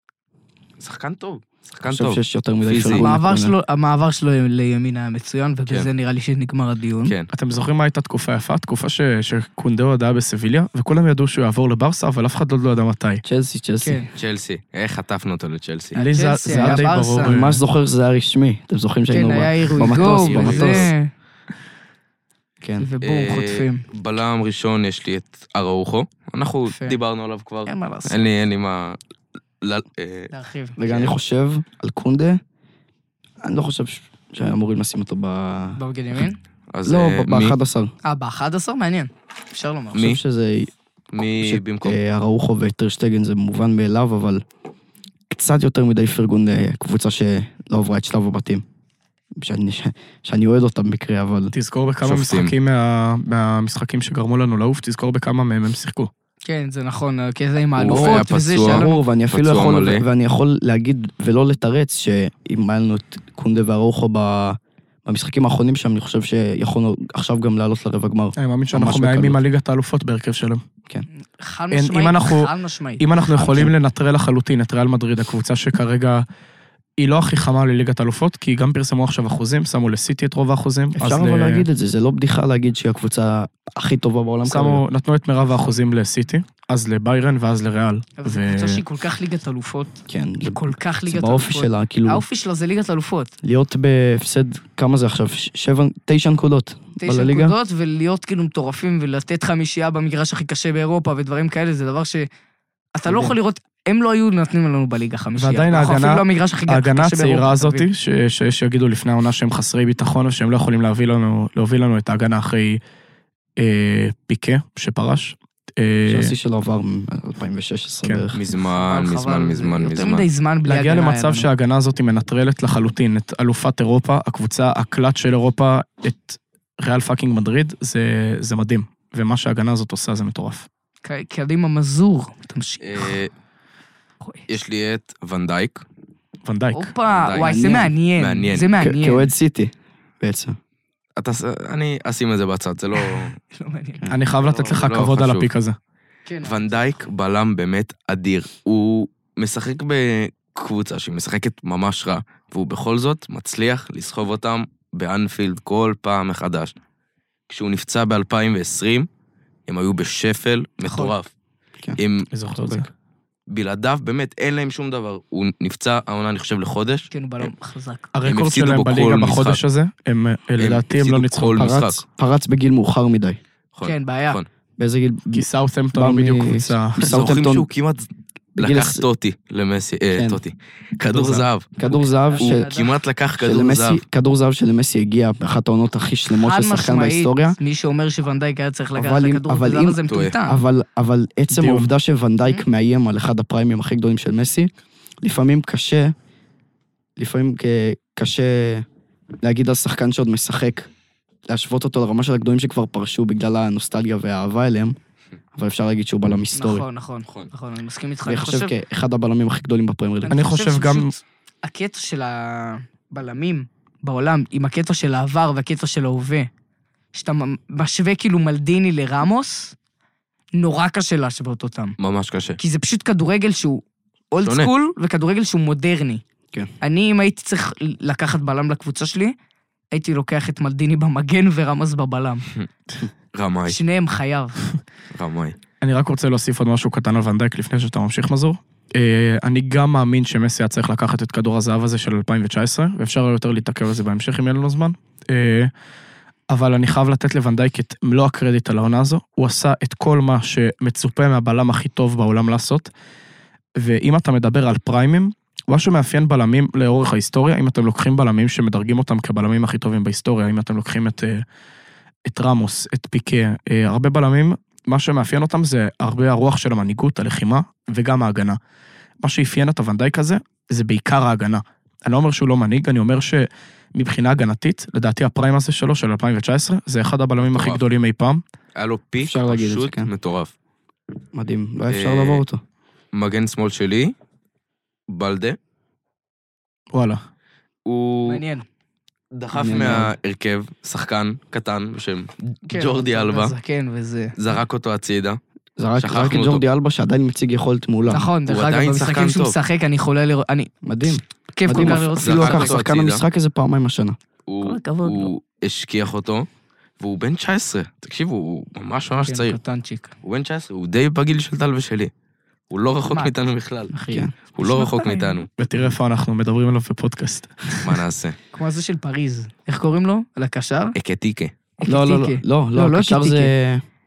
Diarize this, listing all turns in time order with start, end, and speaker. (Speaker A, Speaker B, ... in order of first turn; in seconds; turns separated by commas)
Speaker A: 0.8-3.1, Speaker B: 1.9-3.5, Speaker C: 2.9-7.1, Speaker A: 7.0-7.3, Speaker D: 7.3-13.2, Speaker B: 13.2-14.0, Speaker C: 13.8-14.1, Speaker A: 14.2-16.0, Speaker C: 15.9-17.4, Speaker D: 15.9-17.6, Speaker B: 16.4-20.9, Speaker C: 19.1-21.1, Speaker A: 19.8-20.9, Speaker B: 22.6-22.9, Speaker C: 22.8-23.8, Speaker A: 23.0-29.0, Speaker C: 26.7-27.0, Speaker C: 27.6-28.2, Speaker A: 29.6-30.3, Speaker C: 30.3-30.8, Speaker B: 30.8-32.4, Speaker A: 30.9-31.1, Speaker B: 33.4-36.2, Speaker C: 35.8-36.4, Speaker A: 36.7-37.5, Speaker B: 36.8-37.9, Speaker C: 38.0-40.1, Speaker A: 39.9-40.2, Speaker B: 39.9-40.7, Speaker A: 41.1-42.0, Speaker B: 41.4-44.4, Speaker B: 45.3-48.6, Speaker B: 49.4-51.5, Speaker D: 51.5-56.1, Speaker A: 52.0-52.5, Speaker C: 56.4-59.0, Speaker A: 57.8-60.0, Speaker B: 57.8-69.4, Speaker D: 68.4-70.6, Speaker C: 71.4-73.6, Speaker D: 71.7-76.2, Speaker B: 73.4-73.7, Speaker D: 77.0-81.7, Speaker B: 81.0-84.8, Speaker D: 84.4-88.8, Speaker C: 88.2-93.3, Speaker B: 90.1-92.2, Speaker B: 93.4-97.5, Speaker C: 97.0-102.3, Speaker C: 102.9-107.9, Speaker B: 103.1-103.3, Speaker D: 105.4-112.8, Speaker D: 113.6-116.3, Speaker B: 116.0-118.4, Speaker A: 118.3-120.3, Speaker C: 118.7-121.5, Speaker D: 120.6-130.7, Speaker C: 131.0-133.2, Speaker A: 132.8-133.3, Speaker A: 134.5-135.8, Speaker D: 136.4-136.9, Speaker C: 136.7-139.3, Speaker A: 137.1-137.6, Speaker B: 137.3-137.9, Speaker A: 138.2-138.7, Speaker B: 138.8-140.6, Speaker A: 141.2-143.3, Speaker C: 143.0-144.0, Speaker D: 144.1-145.8, Speaker A: 144.4-145.5, Speaker C: 146.2-146.9, Speaker A: 146.4-156.7, Speaker A: 157.5-159.1, Speaker A: 159.7-161.3, Speaker C: 160.8-161.1, Speaker A: 162.0-162.3, Speaker D: 162.3-162.9, Speaker B: 162.6-162.8, Speaker A: 163.5-167.5, Speaker C: 167.1-168.1, Speaker D: 168.1-171.8, Speaker A: 168.2-169.6, Speaker A: 170.6-172.0, Speaker B: 171.5-173.4, Speaker A: 173.7-174.5, Speaker C: 173.8-174.4, Speaker B: 174.8-177.7, Speaker D: 175.3-177.2, Speaker A: 177.0-181.7, Speaker B: 178.6-179.0, Speaker B: 180.1-180.4, Speaker D: 181.1-181.5, Speaker B: 181.8-182.7, Speaker C: 181.8-182.9, Speaker A: 182.3-184.0, Speaker B: 183.4-187.6, Speaker C: 186.3-190.6, Speaker B: 188.9-194.7, Speaker A: 190.1-190.4, Speaker D: 191.5-191.9, Speaker B: 195.2-196.1, Speaker B: 197.2-198.8, Speaker B: 199.4-200.9, Speaker B: 201.5-204.9, Speaker B: 205.6-206.8, Speaker C: 206.5-208.7, Speaker B: 208.2-210.5, Speaker C: 210.2-216.5, Speaker D: 210.3-211.1, Speaker C: 217.1-219.7, Speaker C: 220.5-221.9, Speaker A: 222.0-222.6, Speaker C: 222.6-226.2, Speaker A: 224.4-224.7, Speaker C: 226.8-229.3, Speaker C: 229.9-232.4, Speaker A: 233.3-233.8, Speaker C: 233.7-234.6, Speaker A: 235.1-235.6, Speaker D: 235.8-245.7, Speaker D: 246.5-252.9, Speaker D: 253.8-261.4, Speaker D: 262.2-268.6, Speaker D: 269.2-278.4, Speaker A: 277.4-277.8, Speaker A: 278.8-280.5, Speaker B: 279.2-280.1, Speaker B: 281.3-282.6, Speaker A: 281.9-282.4, Speaker A: 283.1-284.1, Speaker A: 285.1-285.6, Speaker D: 286.9-287.2, Speaker A: 287.9-288.4, Speaker C: 288.2-288.6, Speaker A: 289.3-293.5, Speaker B: 289.5-290.1, Speaker C: 292.7-294.3, Speaker A: 294.4-295.4, Speaker B: 295.8-298.2, Speaker A: 296.0-296.6, Speaker A: 298.1-299.6, Speaker C: 298.1-302.8, Speaker B: 300.8-304.2, Speaker A: 301.7-303.2, Speaker A: 304.5-306.5, Speaker C: 304.6-305.3, Speaker A: 307.0-309.6, Speaker C: 309.2-310.1, Speaker A: 310.2-312.1, Speaker A: 312.7-313.9, Speaker C: 313.9-315.4, Speaker A: 314.5-315.5, Speaker D: 315.6-318.0, Speaker A: 317.8-318.4, Speaker C: 318.5-320.9, Speaker A: 320.9-321.5, Speaker C: 321.8-323.5, Speaker B: 321.8-323.8